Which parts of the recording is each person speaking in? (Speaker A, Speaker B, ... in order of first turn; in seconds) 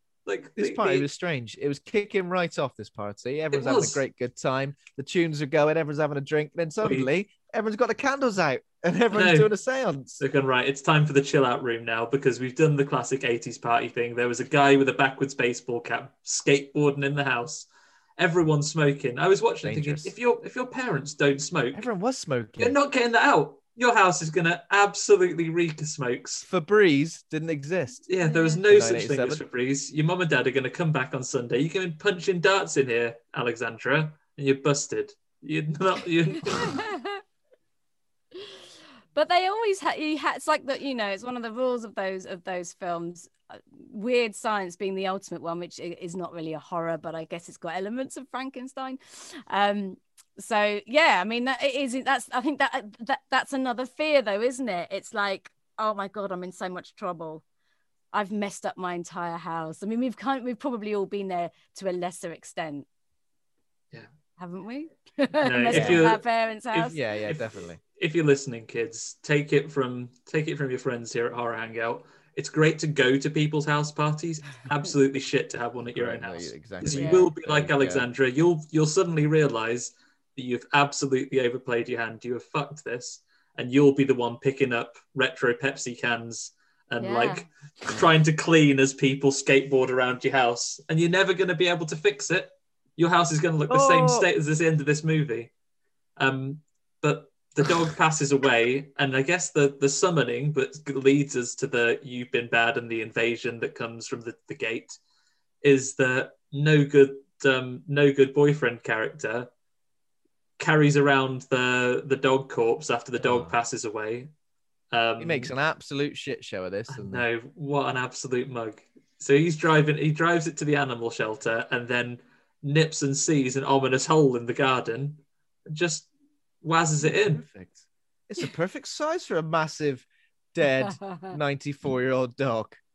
Speaker A: 0.3-1.1, 3.5-4.0, 6.8-7.1, 9.1-9.5, 10.2-21.9, 22.6-26.5, 28.1-36.8, 65.4-66.2, 67.3-95.5, 96.2-105.0, 105.6-109.5, 110.6-114.3, 114.9-115.5, 116.9-126.1, 126.6-127.4
Speaker B: 0.6-10.2, 19.6-20.1, 21.7-22.8, 26.4-28.1, 28.7-29.4, 65.7-66.1, 66.7-67.8, 75.9-78.1, 93.7-94.3, 113.2-113.6, 115.2-117.2, 127.0-132.8
Speaker C: 28.2-28.6, 36.5-37.2, 39.1-57.4, 58.1-62.9, 64.4-67.0, 76.9-77.3, 87.0-87.5, 130.8-131.4